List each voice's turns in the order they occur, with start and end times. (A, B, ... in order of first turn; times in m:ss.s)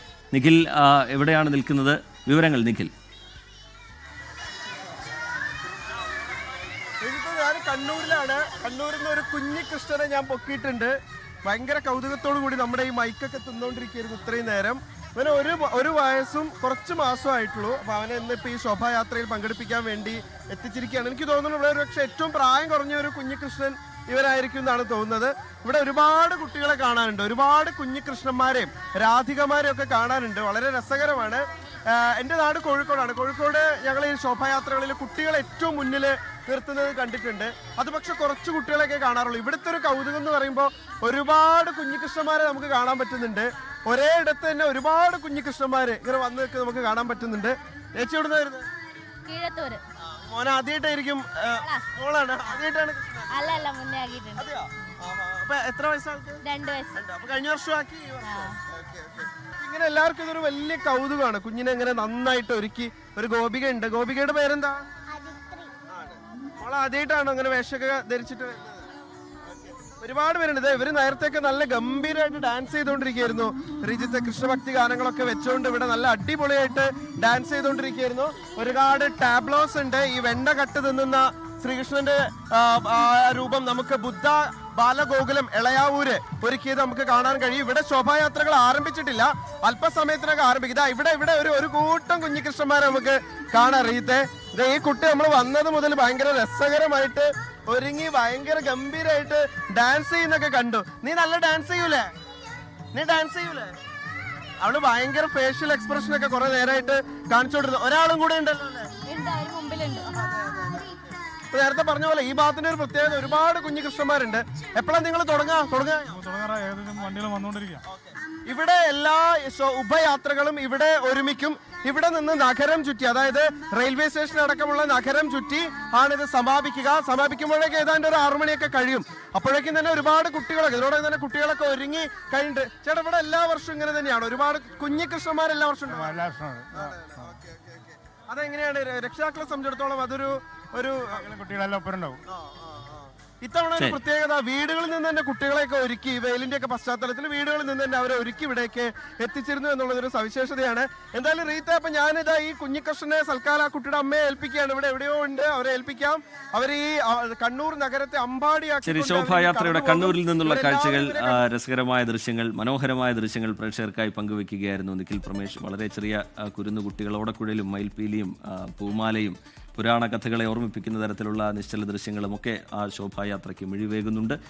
0:00.3-0:02.9 A
0:07.0-0:48.7 B
0:49.2-0:49.8 C
0:50.0-0:53.6 B
0:51.6-0:51.8 C
0:53.3-0:54.4 C
0:54.4-0:56.4 B
0:56.4-0:57.0 C
0:56.9-1:04.8 B
0:58.2-0:58.6 C
1:05.1-1:05.7 C
1:05.9-1:08.9 B
1:09.8-1:42.1 B
1:42.9-1:43.7 B
1:44.6-1:48.9 B
1:49.1-1:50.1 C
1:50.1-1:51.0 B
1:51.5-1:56.2 B
1:56.1-1:57.8 D
1:57.9-2:21.2 B
2:15.9-2:17.3 D
2:21.0-2:22.2 D
2:22.3-2:41.4 B
2:38.8-2:54.4 A